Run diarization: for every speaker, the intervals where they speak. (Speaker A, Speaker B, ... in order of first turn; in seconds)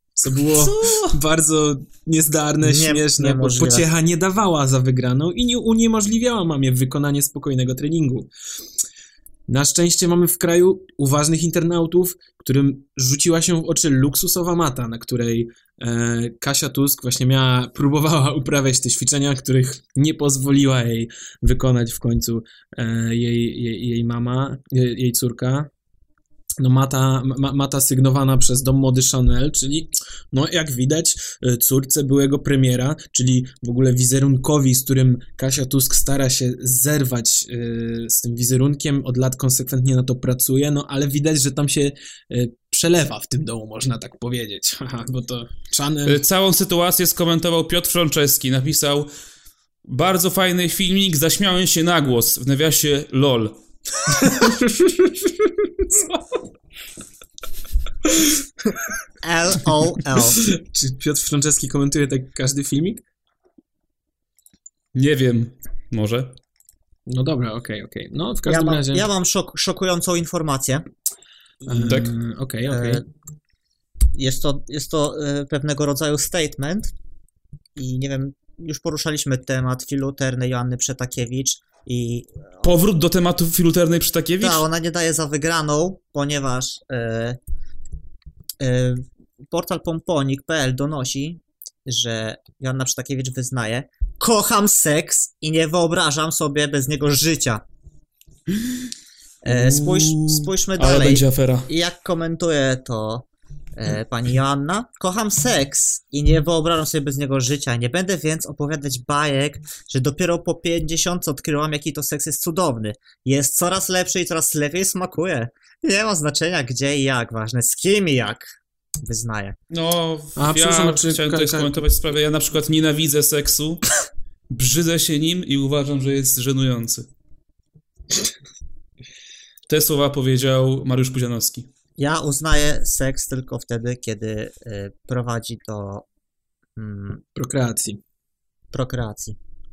Speaker A: 0.1-8.3, 9.5-25.7, 26.6-46.2, 54.3-56.2, 60.2-63.0, 67.1-69.1, 71.7-73.0, 120.4-121.9, 137.3-138.0
Speaker B: 0.5-1.1, 46.0-49.1, 49.8-53.5, 64.9-66.3, 82.6-84.6, 99.5-101.7, 119.7-123.8, 124.5-127.1, 129.7-131.7
Speaker C: 2.6-3.9, 59.2-60.4, 68.5-70.8, 71.6-72.0, 72.7-73.0, 74.1-76.9, 77.8-82.8, 84.4-87.4, 88.6-97.6, 99.4-103.2, 103.8-119.5, 132.0-136.0, 136.8-137.2, 138.7-139.4